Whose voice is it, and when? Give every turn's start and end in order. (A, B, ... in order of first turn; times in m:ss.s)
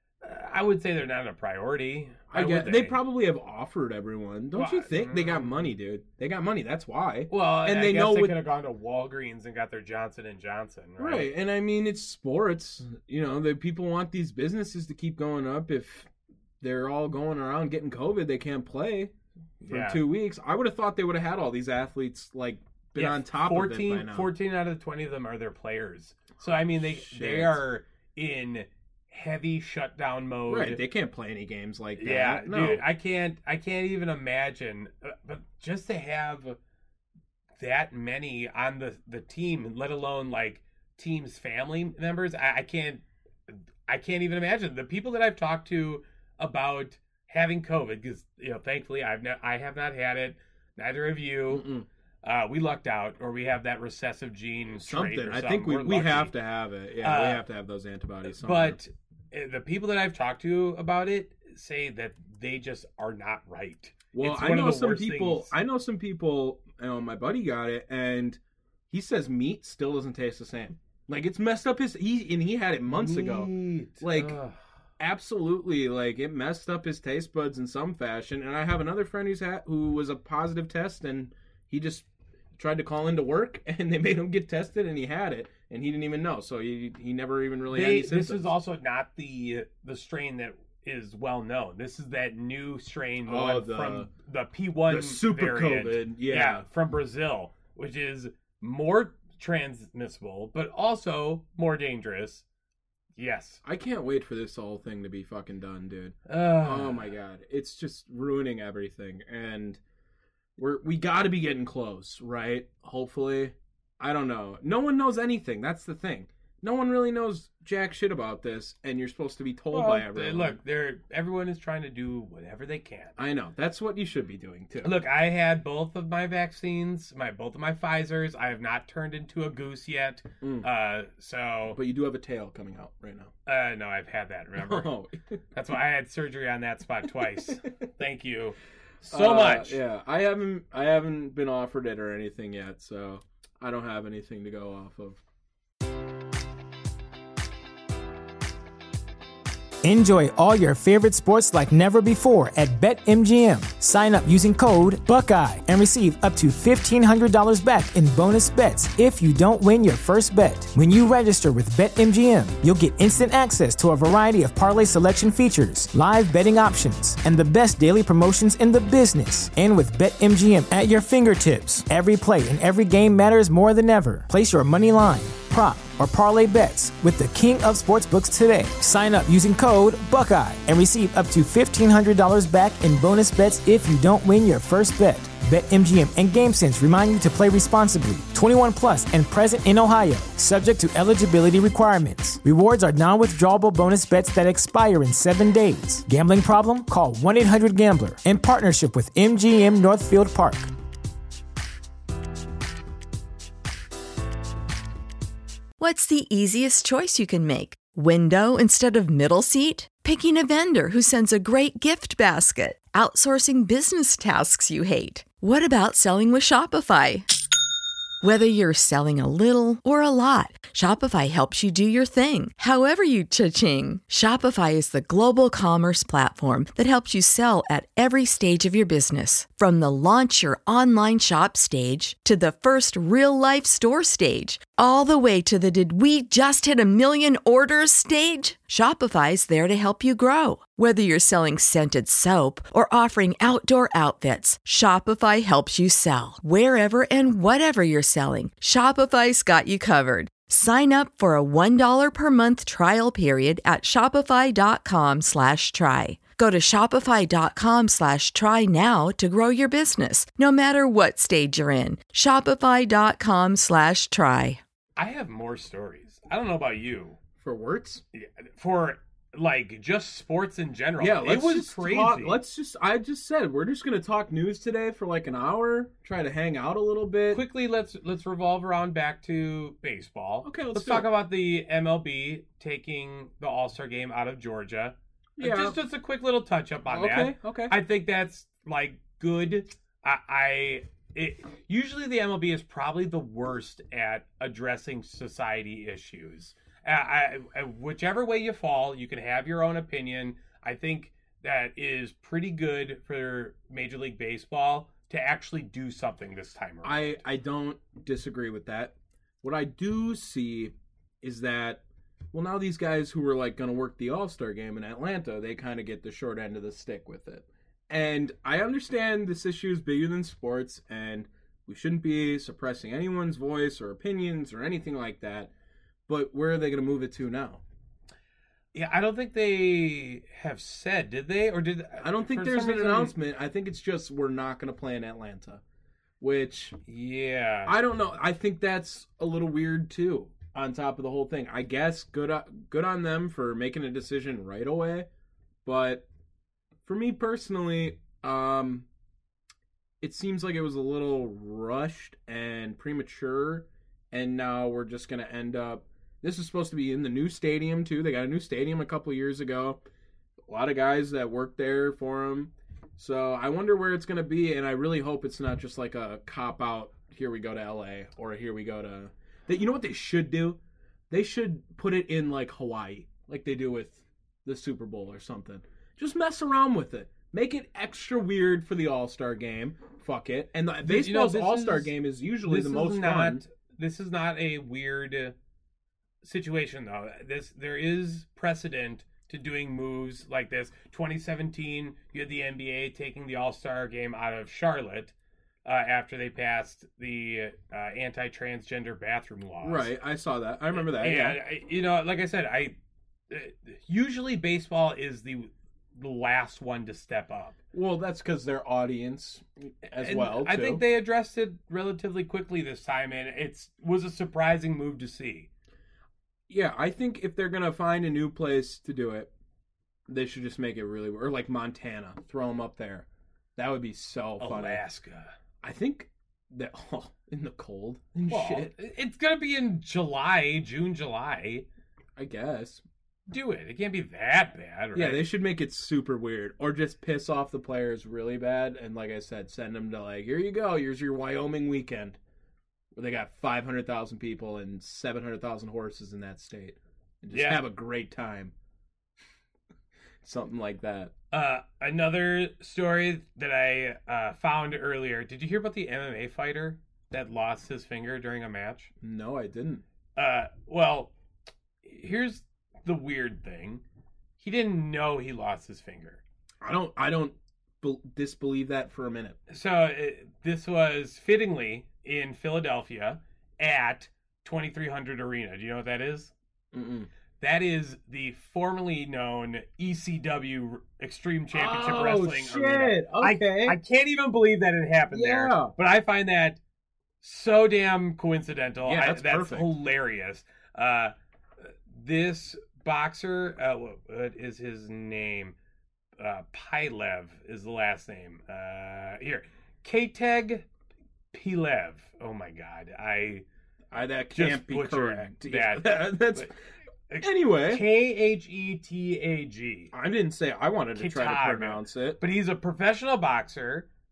0:00.2-0:03.0 A
0:02.3-0:08.4 B
0:04.6-0:05.7 A
0:07.3-0:11.3 A
0:11.0-0:16.1 B
0:16.6-0:24.3 B
0:19.6-0:20.0 A
0:23.0-0:30.8 A
0:26.7-0:27.6 B
0:30.5-0:32.8 B
0:32.0-0:36.6 A
0:37.6-0:51.7 A
0:51.5-0:51.9 B
0:52.2-0:56.3 A
0:54.8-0:58.8 B
0:57.0-0:57.4 A
0:58.3-1:05.5 A
1:04.1-1:14.4 B
1:12.9-1:14.6 A
1:15.0-1:28.6 B
1:27.7-1:42.4 A
1:33.2-1:34.1 B
1:34.9-1:36.7 B
1:43.2-1:43.6 A
1:43.6-1:49.8 B
1:46.3-1:47.1 A
1:50.6-2:00.6 B
1:59.7-2:03.2 A
2:03.2-2:05.0 B
2:04.8-2:11.8 A
2:10.4-2:10.7 B
2:11.8-2:13.3 B
2:13.5-2:14.9 A
2:14.6-2:15.4 B
2:15.5-2:19.8 A
2:19.0-2:25.2 B
2:29.8-3:20.7 C
3:25.8-3:37.3 D
3:38.2-4:24.6 D
4:25.0-4:27.2 A
4:27.4-4:28.0 B
4:28.1-4:32.4 A
4:31.0-4:37.4 B
4:37.3-5:07.2 A
4:40.4-4:41.1 B
4:45.4-4:45.8 B
4:46.9-4:47.8 B
5:06.8-5:11.8 B
5:12.3-5:25.5 B
5:26.1-5:27.6 B
5:28.7-5:33.2 A
5:32.0-5:35.6 B
5:36.2-5:36.8 B
5:36.9-5:37.8 A
5:37.6-5:45.1 B
5:45.6-5:46.1 B
5:46.9-5:48.9 B
5:50.0-5:59.8 B
6:00.5-6:23.4 B
6:20.8-6:25.4 A
6:26.2-6:35.1 A
6:35.6-6:39.9 A
6:39.6-6:41.4 B
6:40.7-6:42.8 A
6:43.3-6:47.6 A
6:47.7-6:50.8 B
6:50.0-6:55.5 A
6:56.5-6:59.3 B
7:00.1-7:04.8 B
7:04.4-7:05.3 A
7:05.6-7:08.7 B
7:08.3-7:11.7 A
7:12.2-7:12.8 B
7:13.3-7:15.2 A
7:14.9-7:22.2 B
7:23.0-7:28.5 B
7:27.3-7:27.6 A
7:30.2-7:31.1 B
7:31.3-7:38.9 A
7:39.0-7:39.8 B
7:40.2-7:41.1 A
7:41.8-7:43.8 A
7:44.4-7:46.2 A
7:46.6-7:49.4 B
7:49.5-7:56.3 A
7:56.7-7:57.1 B
7:57.4-8:06.6 A
8:01.5-8:03.8 B
8:05.1-8:05.7 B
8:07.2-8:15.6 A
8:08.8-8:09.7 B
8:16.2-8:20.7 A
8:21.3-8:23.5 A
8:23.9-8:26.5 B
8:24.4-8:26.5 A
8:27.1-8:29.9 A
8:27.2-8:27.9 B
8:29.9-8:32.2 B
8:31.0-8:33.9 A